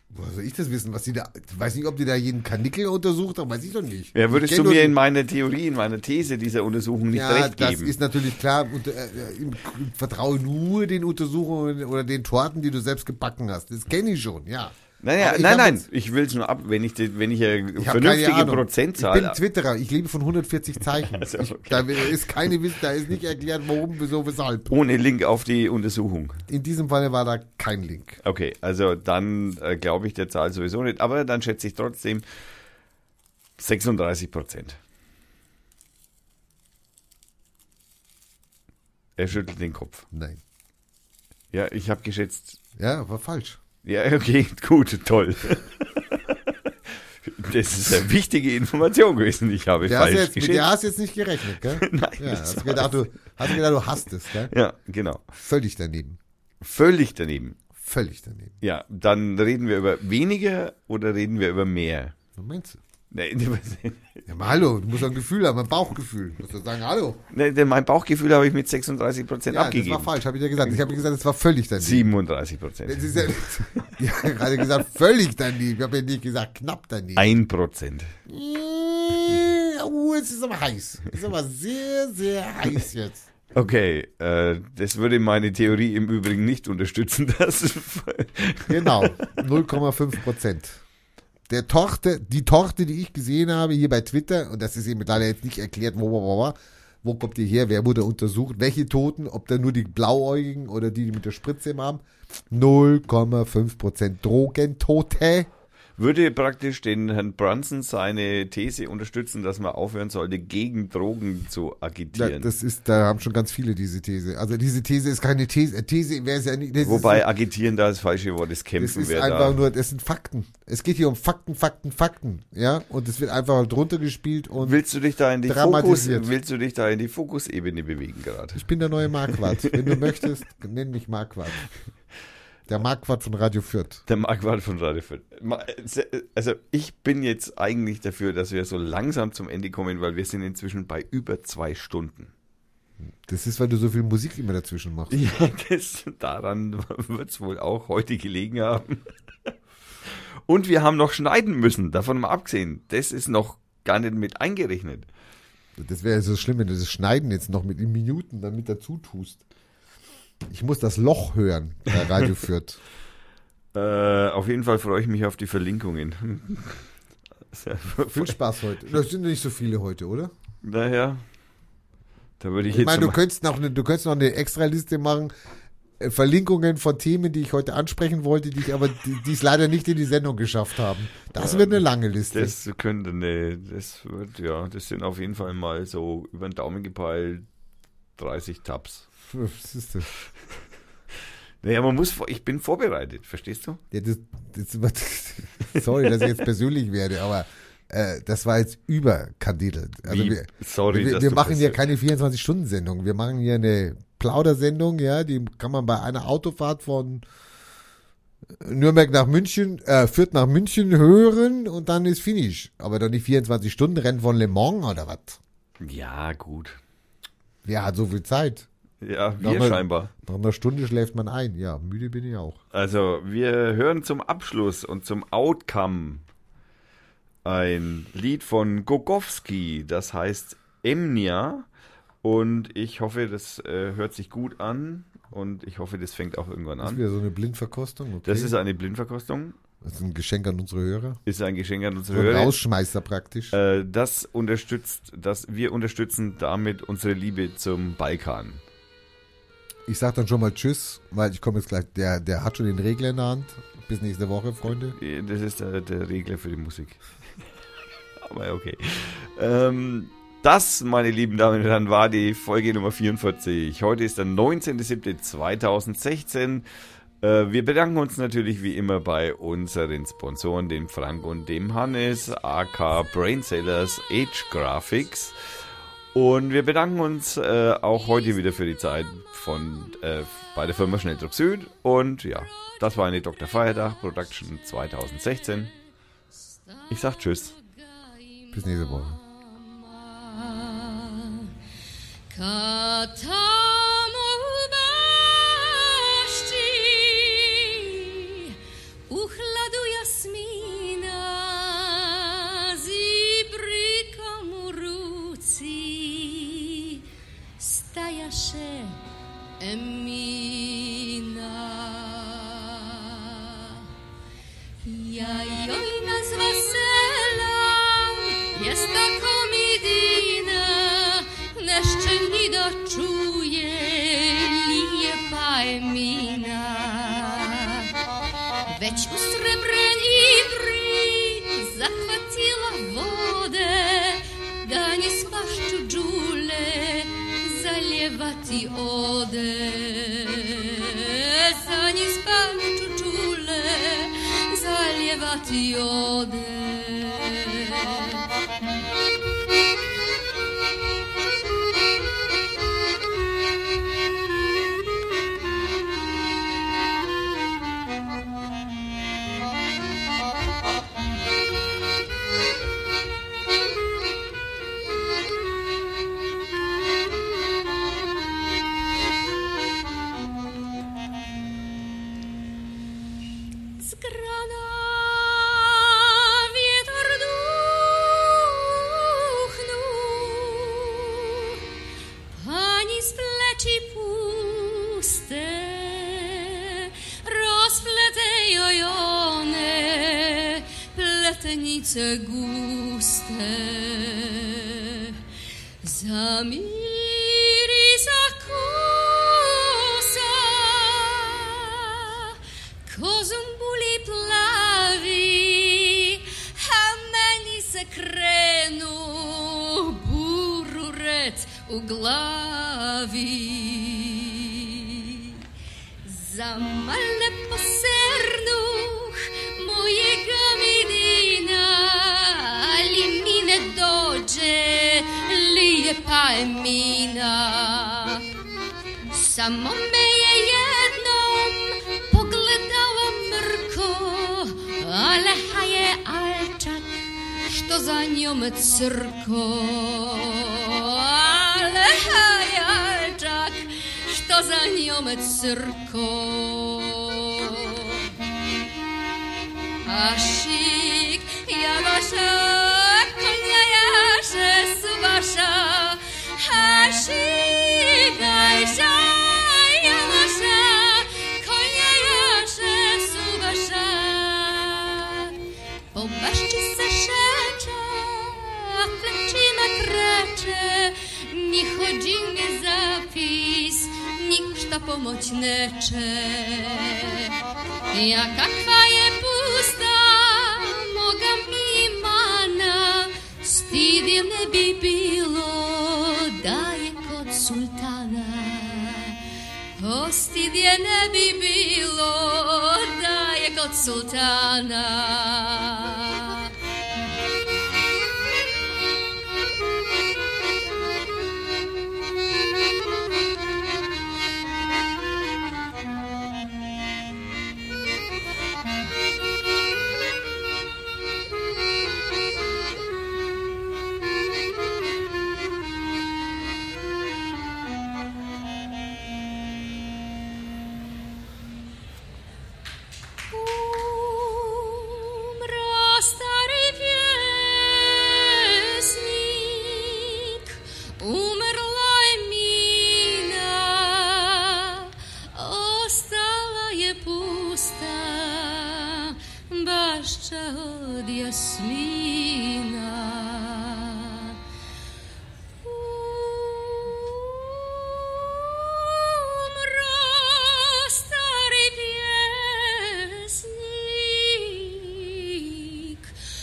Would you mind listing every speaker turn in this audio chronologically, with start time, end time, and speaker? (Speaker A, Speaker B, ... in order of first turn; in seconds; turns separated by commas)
Speaker A: 0.1-5.0, Speaker B: 4.2-8.0, Speaker A: 7.1-15.9, Speaker B: 15.0-19.4, Speaker A: 17.8-24.7, Speaker B: 21.0-22.6, Speaker B: 24.7-26.4, Speaker A: 26.5-28.2, Speaker B: 28.2-32.2, Speaker B: 33.6-34.8, Speaker B: 39.2-40.1, Speaker A: 40.1-40.4, Speaker B: 41.5-42.6, Speaker A: 42.8-43.6, Speaker B: 43.8-46.7, Speaker B: 47.2-50.7, Speaker A: 49.8-54.5, Speaker B: 51.6-53.6, Speaker B: 54.5-55.3, Speaker A: 55.4-56.2, Speaker B: 56.6-57.6, Speaker A: 57.8-58.6, Speaker B: 58.6-62.1, Speaker A: 62.4-62.8, Speaker B: 63.1-64.2, Speaker A: 64.3-67.2, Speaker B: 67.3-70.9, Speaker A: 69.5-72.1, Speaker B: 71.8-74.0, Speaker A: 72.9-77.4, Speaker B: 77.2-78.1, Speaker A: 78.3-83.3, Speaker B: 83.5-89.7, Speaker A: 88.7-90.8, Speaker A: 91.5-105.5, Speaker B: 106.0-112.5, Speaker A: 112.1-117.3, Speaker B: 116.8-119.6, Speaker A: 118.8-124.8, Speaker B: 124.6-128.7, Speaker A: 125.4-126.3, Speaker A: 128.5-131.7, Speaker B: 129.3-130.2, Speaker A: 132.7-134.0, Speaker B: 134.1-142.3, Speaker A: 143.2-145.2, Speaker B: 145.1-149.1, Speaker B: 150.5-155.1, Speaker A: 155.8-159.4, Speaker A: 160.5-162.8, Speaker B: 163.8-166.9, Speaker B: 167.5-168.4, Speaker A: 168.1-170.3, Speaker B: 170.6-171.2, Speaker B: 172.4-173.2, Speaker A: 172.7-175.3, Speaker A: 176.0-182.6, Speaker B: 181.4-187.4, Speaker B: 188.2-189.1, Speaker A: 189.3-190.1, Speaker B: 191.6-193.8, Speaker A: 193.9-207.2, Speaker B: 200.1-201.8, Speaker A: 208.6-215.4, Speaker B: 215.8-216.8, Speaker A: 217.6-218.7, Speaker B: 219.0-220.1, Speaker A: 219.4-222.6, Speaker B: 222.7-226.2, Speaker B: 227.4-231.7, Speaker B: 232.2-237.0, Speaker A: 236.8-238.6, Speaker B: 238.2-239.6, Speaker A: 239.8-241.2, Speaker B: 241.3-242.6, Speaker A: 242.1-243.6, Speaker B: 243.5-248.6, Speaker A: 249.9-255.0, Speaker B: 254.9-257.0, Speaker B: 258.2-266.7, Speaker B: 267.2-275.4, Speaker B: 276.1-285.7, Speaker B: 286.9-287.6, Speaker C: 287.1-291.5, Speaker A: 288.5-289.2, Speaker C: 292.3-298.5, Speaker C: 299.1-307.0, Speaker C: 307.6-309.0, Speaker C: 309.6-313.8, Speaker C: 314.8-327.9, Speaker C: 328.7-348.2, Speaker C: 373.8-381.6, Speaker C: 382.3-395.2, Speaker C: 395.8-402.3, Speaker C: 402.9-415.4, Speaker C: 416.0-428.2, Speaker C: 429.1-448.0, Speaker C: 449.9-465.3, Speaker C: 465.9-477.3, Speaker C: 477.9-489.2, Speaker C: 489.8-496.5, Speaker C: 523.3-530.4, Speaker C: 531.0-544.4, Speaker C: 545.6-556.0